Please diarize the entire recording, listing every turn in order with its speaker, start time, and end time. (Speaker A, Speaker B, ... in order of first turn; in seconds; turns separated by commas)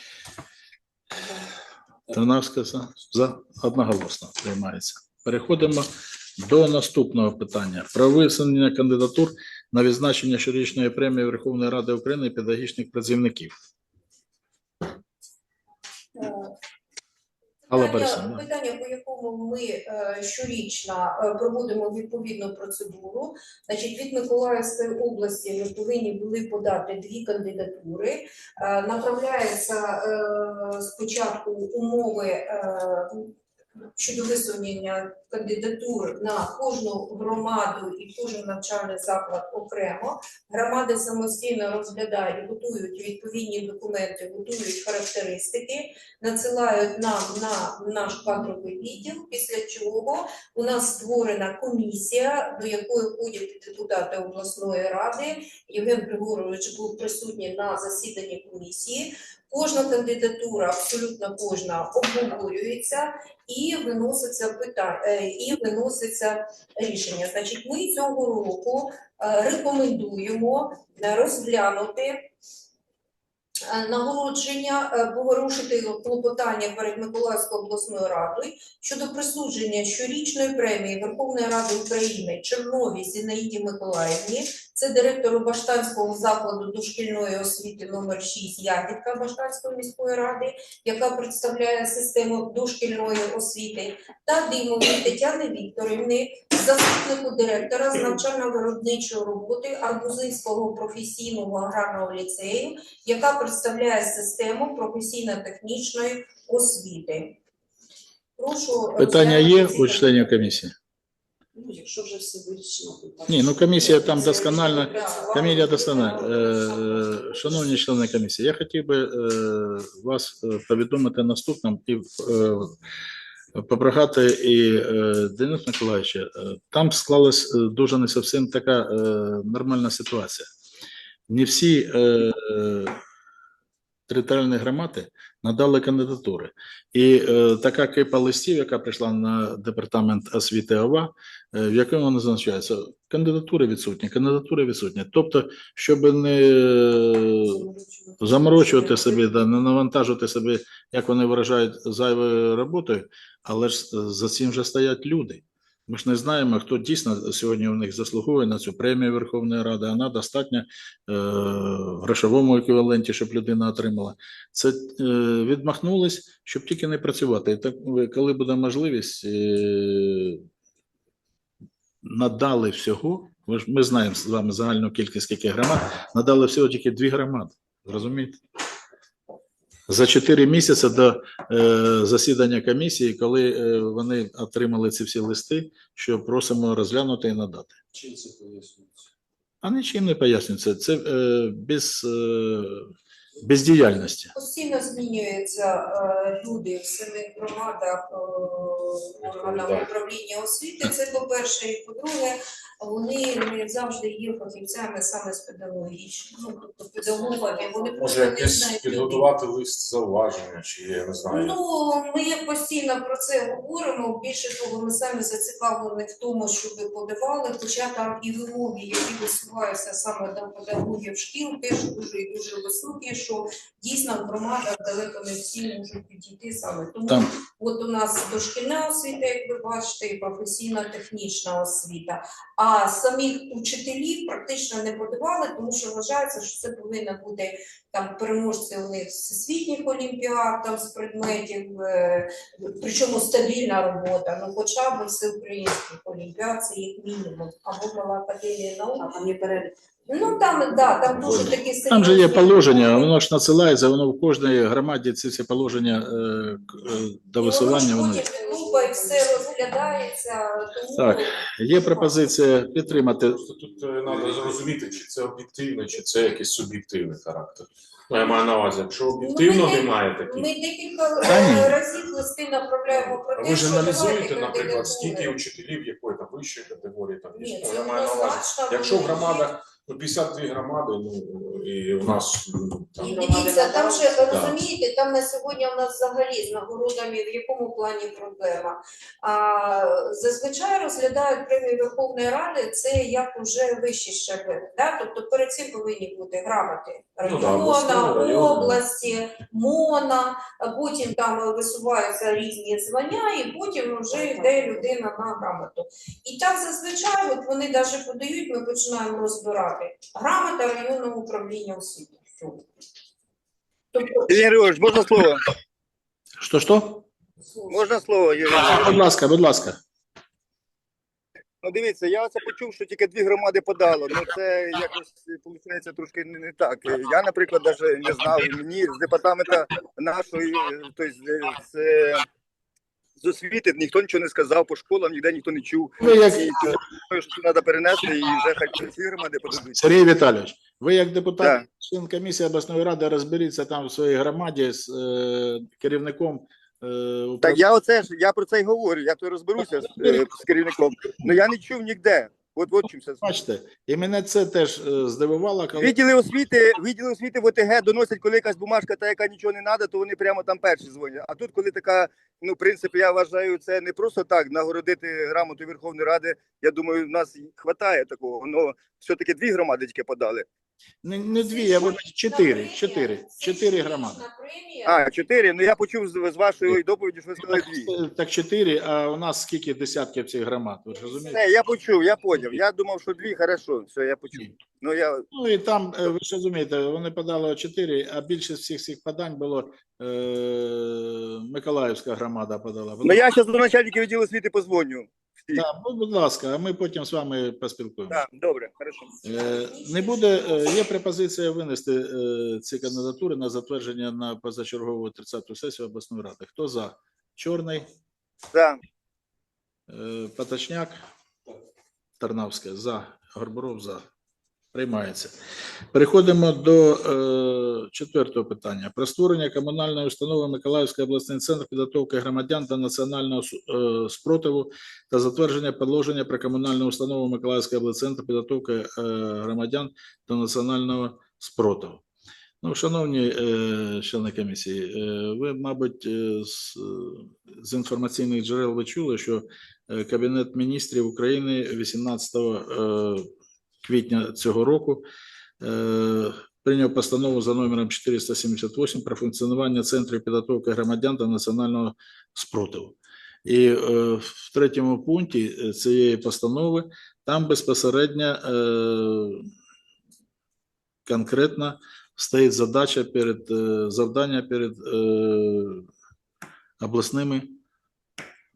Speaker A: 2.1-13.5, Speaker B: 16.1-16.5, Speaker B: 17.7-33.3, Speaker A: 17.7-18.4, Speaker B: 33.9-72.3, Speaker B: 73.7-107.4, Speaker B: 108.4-110.4, Speaker A: 109.0-110.7, Speaker C: 111.5-117.7, Speaker A: 113.3-122.7, Speaker B: 114.2-116.2, Speaker A: 123.5-130.5, Speaker A: 131.3-133.0, Speaker A: 134.1-147.7, Speaker C: 147.4-149.4, Speaker A: 148.2-170.4, Speaker A: 172.0-178.4, Speaker A: 179.9-187.8, Speaker D: 188.0-188.8, Speaker A: 189.6-192.9, Speaker A: 193.4-194.3, Speaker B: 194.3-209.3, Speaker D: 199.2-199.9, Speaker C: 207.3-207.9, Speaker D: 208.0-211.6, Speaker B: 211.3-249.3, Speaker C: 249.1-249.7, Speaker B: 250.1-253.1, Speaker A: 251.9-258.3, Speaker B: 257.4-262.3, Speaker C: 258.3-259.3, Speaker A: 260.9-263.4, Speaker D: 263.2-270.5, Speaker B: 269.2-275.4, Speaker A: 271.2-271.8, Speaker D: 273.3-283.3, Speaker B: 277.3-279.5, Speaker B: 283.0-312.6, Speaker C: 283.0-284.3, Speaker D: 284.3-284.6, Speaker D: 297.2-298.8, Speaker B: 313.9-314.4, Speaker E: 314.3-315.4, Speaker A: 316.4-317.0, Speaker E: 317.7-319.0, Speaker A: 318.5-319.8, Speaker E: 321.6-332.2, Speaker E: 333.2-339.8, Speaker A: 336.0-336.8, Speaker A: 339.6-347.6, Speaker E: 347.4-353.2, Speaker A: 349.8-350.3, Speaker A: 353.2-355.9, Speaker E: 355.8-370.4, Speaker A: 371.0-374.2, Speaker B: 371.5-375.1, Speaker E: 374.9-377.9, Speaker A: 377.4-381.4, Speaker E: 381.2-385.2, Speaker A: 385.3-393.3, Speaker E: 393.0-395.6, Speaker A: 395.5-398.2, Speaker E: 398.1-399.1, Speaker A: 399.2-407.9, Speaker B: 399.3-400.9, Speaker E: 408.5-408.8, Speaker A: 409.9-411.0, Speaker A: 412.2-414.0, Speaker A: 414.7-415.3, Speaker A: 415.9-432.0, Speaker A: 432.6-443.3, Speaker A: 443.8-445.0, Speaker A: 445.6-459.4, Speaker A: 461.1-465.9, Speaker A: 466.8-467.5